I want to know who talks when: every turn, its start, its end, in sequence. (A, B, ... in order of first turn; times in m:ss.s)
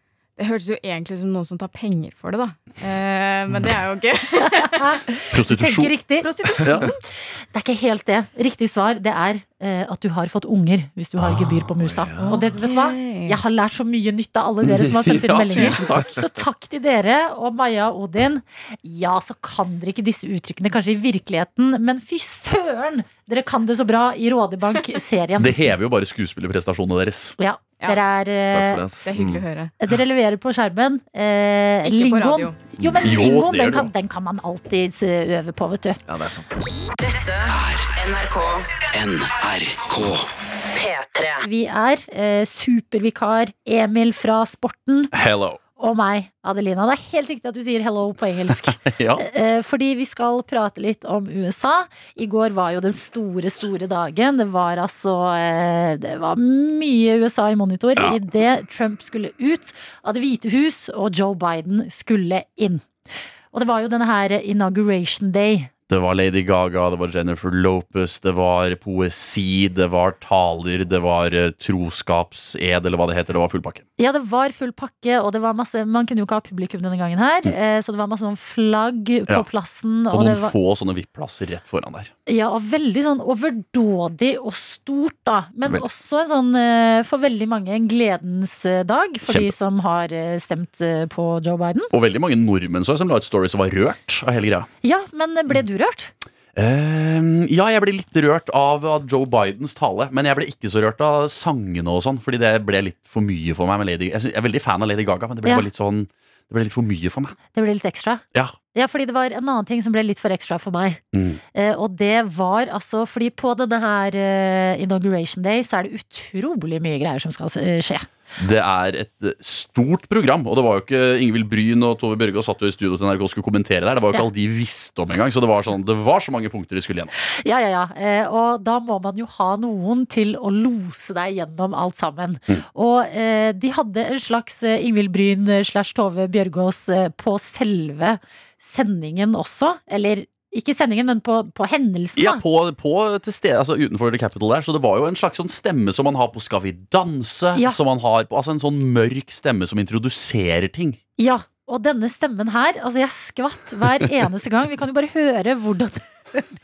0:00.4-0:05.0 A
0:04.5-0:25.7 B
0:05.3-0:06.0 C
0:11.2-0:12.3 D
0:11.2-0:11.7 C
0:12.2-0:13.4 A
0:14.6-0:16.2 C
0:25.4-0:27.4 C
0:27.4-0:28.8 B
0:28.5-0:29.4 D
0:29.0-0:29.7 A
0:29.8-0:36.0 B
0:31.8-0:32.6 A
0:33.0-0:33.9 C
0:36.1-0:36.5 D
0:37.0-0:41.4 E
0:39.0-0:39.3 C
0:41.4-0:45.1 B
0:45.1-0:45.6 C
0:45.8-1:02.9 B
0:48.5-0:49.2 C
1:03.5-1:05.7 B
1:05.9-1:13.8 C
1:14.0-1:20.5 B
1:20.1-1:22.1 C
1:22.3-1:31.9 B
1:29.2-1:29.5 C
1:31.9-1:34.7 C
1:34.8-1:36.1 B
1:36.5-1:47.4 C
1:47.5-1:48.2 B
1:48.7-1:51.0 B
1:51.1-1:51.4 C
1:51.5-1:58.1 B
1:58.4-2:07.1 C
2:07.2-2:22.4 B
2:22.2-2:31.0 C
2:27.5-2:27.8 B
2:31.2-2:36.5 B